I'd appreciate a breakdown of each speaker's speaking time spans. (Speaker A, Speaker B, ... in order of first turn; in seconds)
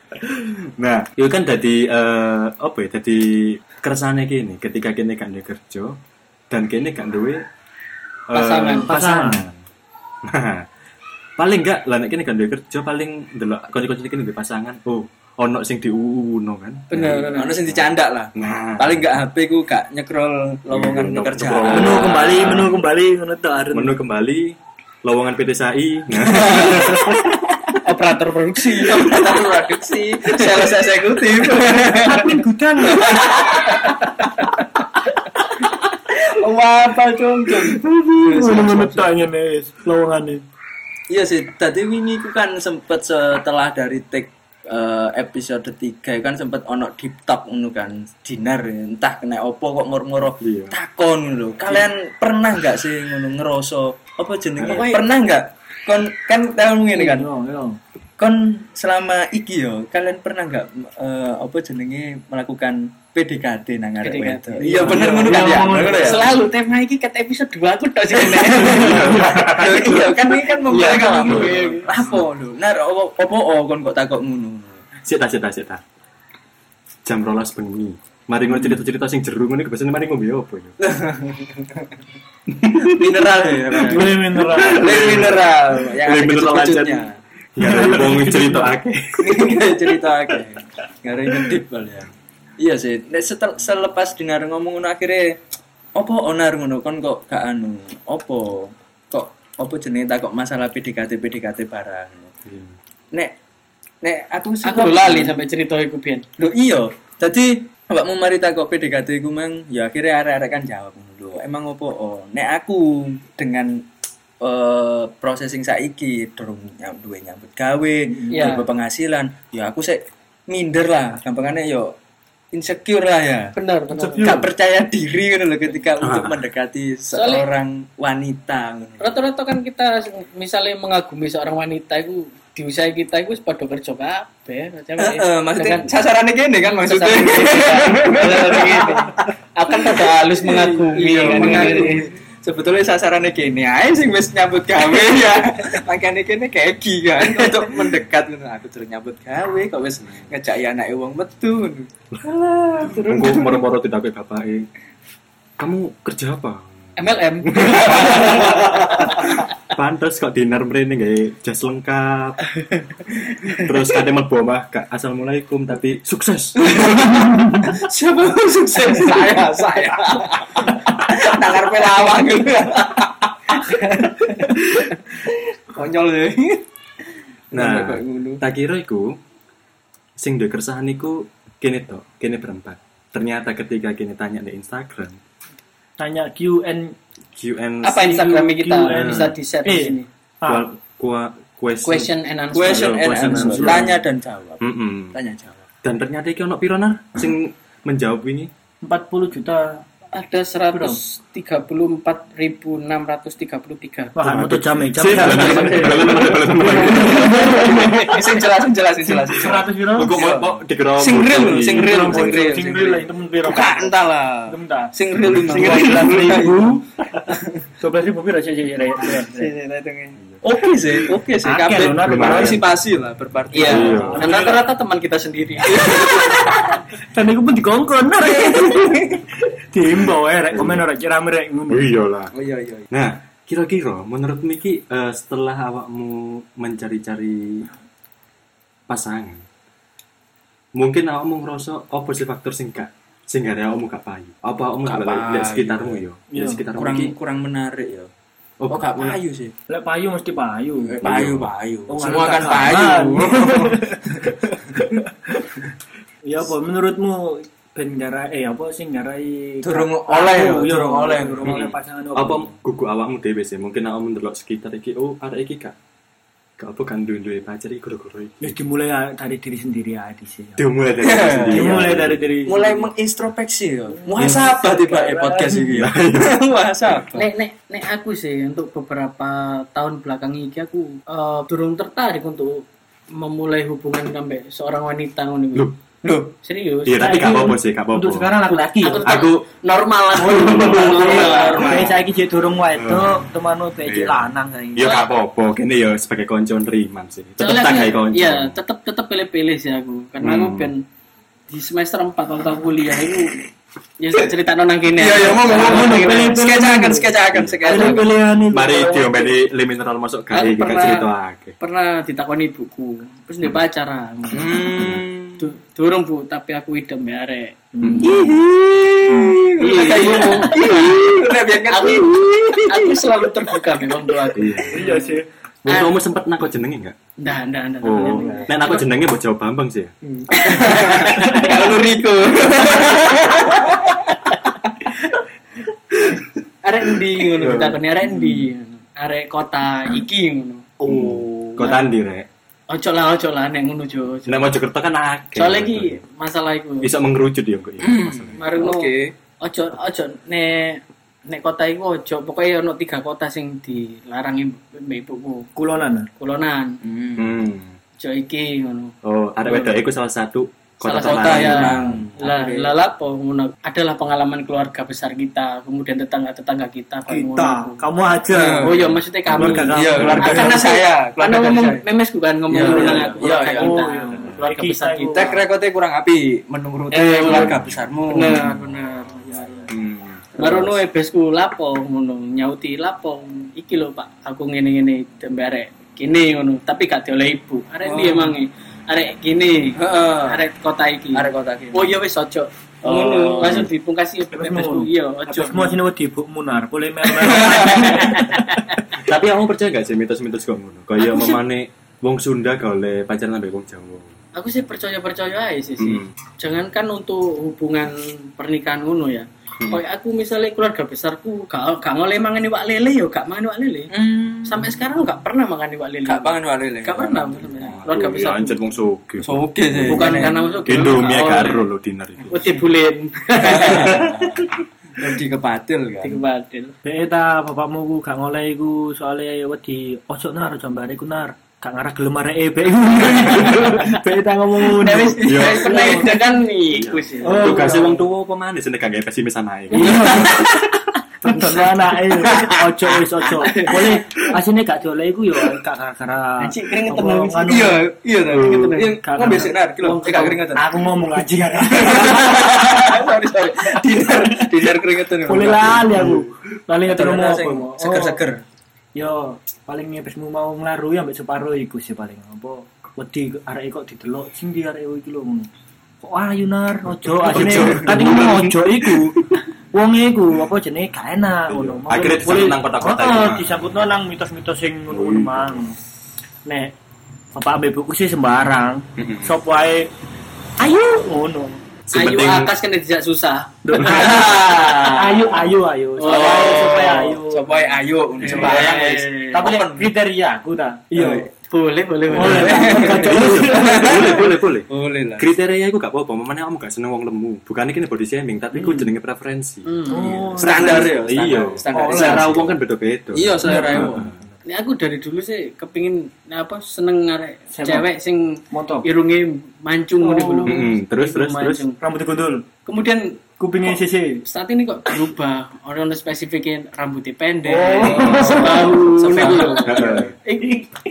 Speaker A: 0.2-6.0, 6.5-7.4, 8.3-9.6, 10.2-10.7, 11.4-19.2, 20.7-22.9, 23.7-27.2, 50.4-50.8, 54.6-54.8, 68.6-70.0, 70.7-71.7, 75.0-75.8, 77.0-80.8, 82.5-89.8, 102.5-102.8, 126.0-126.4, 152.8-154.7, 155.6-156.9, 157.4-162.5, 163.5-167.1, 177.5-179.2, 180.2-185.2, 187.3-189.3, 190.4-192.1, 192.6-194.0, 194.6-195.2, 195.8-198.5, 204.2-207.6, 209.9-212.3, 215.2-216.7, 222.0-222.7, 223.6-224.3, 230.5-230.8, 231.7-232.3, 232.9-237.7, 238.9-239.4, 240.8-247.2, 248.6-249.2, 251.0-251.5, 261.4-265.7, 266.6-268.6, 270.6-272.3, 274.2-274.5, 275.7-276.4, 286.8-288.3, 289.0-289.4, 290.2-291.4, 292.7-293.3, 293.8-298.6, 300.2-300.7, 307.3-307.8, 308.5-311.6, 314.3-315.4, 317.8-318.4, 324.3-324.8, 325.6-326.9, 327.8-329.9, 337.4-337.8, 340.9-342.3, 344.3-346.0, 346.8-348.4, 357.2-357.7, 359.0-362.1, 369.3-370.3, 377.3-377.8, 379.7-380.2, 393.4-393.7, 399.0-404.1, 405.8-406.1, 417.7-422.6, 423.7-424.1, 435.2-435.8, 436.7-440.6, 448.3-448.7, 455.9-456.2, 467.1-469.4, 471.5-473.7, 474.9-475.6, 479.0-479.3, 481.9-482.5, 492.2-504.1, 510.4-511.7, 517.8-518.2, 519.2-520.1
Speaker B: 8.3-8.9, 16.9-17.6, 27.8-29.3, 36.8-37.7, 54.6-55.1, 64.0-71.9, 104.6-106.2, 118.3-118.7, 123.5-124.4, 127.1-127.5, 129.0-135.9, 136.7-142.1, 157.0-158.8, 187.8-190.1, 191.8-193.8, 200.1-204.2, 205.3-208.4, 223.5-226.4, 277.1-285.7, 286.4-287.2, 288.7-291.9, 294.8-295.1, 297.4-300.8, 301.5-303.4, 304.0-306.4, 310.3-311.1, 311.6-318.3, 319.6-326.0, 327.2-328.9, 330.5-331.7, 336.6-340.7, 342.7-344.6, 345.3-346.9, 348.4-355.5, 356.2-356.8, 358.0-358.9, 359.5-359.7, 360.8-367.8, 368.6-375.4, 376.9-379.7, 380.4-395.8, 397.3-398.7, 401.0-401.4, 404.3-413.9, 414.4-418.6, 419.9-421.7, 422.3-424.1, 426.0-426.7, 435.3-437.7, 443.4-443.9, 446.4-447.7, 448.3-449.0, 449.8-450.4, 481.9-484.5, 486.0-486.9, 488.2-489.3, 491.5-493.0, 499.6-500.2, 504.4-511.8, 512.6-520.7
Speaker C: 8.9-9.4, 21.7-24.0, 31.9-33.8, 37.7-40.4, 56.9-57.8, 64.6-66.4, 69.0-69.5, 83.8-85.3, 87.6-88.7, 118.1-118.6, 123.9-124.5, 186.0-187.0, 188.2-190.7, 198.8-199.8, 200.7-201.0, 204.1-208.2, 209.1-210.1, 211.6-214.9, 215.5-216.8, 217.8-219.5, 221.4-222.6, 223.6-224.7, 225.8-231.9, 246.3-246.6, 249.7-251.0, 251.9-255.6, 256.2-262.5, 268.4-270.6, 271.5-272.9, 273.9-275.7, 287.0-289.1, 290.1-294.9, 305.3-307.1, 307.6-309.3, 317.7-318.2, 324.7-325.2, 327.9-328.5, 330.0-331.5, 355.6-356.1, 367.1-370.6, 372.6-375.3, 394.3-398.5, 426.8-436.1, 437.2-438.0, 439.7-440.7, 441.2-447.8, 449.0-449.6, 450.5-452.8, 454.0-454.5, 455.2-458.2, 458.9-465.5, 466.0-475.8, 476.4-476.7, 477.3-479.9, 480.6-481.6, 483.6-491.3, 492.1-494.2, 498.5-498.9, 499.9-500.9, 501.7-502.4, 503.4-504.2, 507.5-507.9, 508.5-508.9, 510.0-510.6, 511.8-512.5, 513.4-514.2, 517.4-519.6
Speaker D: 17.3-22.1, 26.2-27.2, 28.5-33.9, 36.1-39.1, 41.1-57.3, 58.2-66.3, 68.2-74.8, 80.8-81.9, 82.7-84.2, 84.7-87.2, 89.2-95.4, 96.0-102.3, 104.0-105.4, 106.4-113.8, 114.4-121.9, 122.5-123.5, 124.2-129.1, 135.0-139.2, 139.8-153.6, 157.7-158.5, 166.6-176.6, 177.5-178.4, 192.5-195.6, 205.3-206.0, 207.5-217.6, 219.0-224.5, 225.6-226.7, 228.4-229.2, 232.3-232.9, 244.8-246.0, 246.7-248.1, 248.7-249.5, 250.8-254.8, 259.6-261.6, 271.0-271.9, 272.4-277.3, 286.0-286.3, 290.9-291.9, 304.9-308.1, 314.3-315.4, 318.0-323.7, 330.3-334.3, 336.8-337.6, 340.8-341.7, 347.8-349.1, 356.8-357.4, 361.0-362.7, 368.3-368.9, 369.7-371.8, 372.5-373.8, 375.1-378.6, 379.2-379.7, 380.3-380.8, 387.8-388.4, 389.8-390.4, 391.1-392.0, 392.8-393.7, 397.2-398.3, 413.9-414.8, 416.1-417.8, 419.2-420.4, 423.4-426.2, 434.7-436.4, 439.8-440.7, 442.2-442.7, 443.4-443.7, 447.5-450.8, 451.7-456.1, 456.9-458.4, 483.8-485.5, 486.0-489.9, 490.9-491.3, 492.2-495.3, 500.1-502.6, 503.1-504.1, 517.8-520.1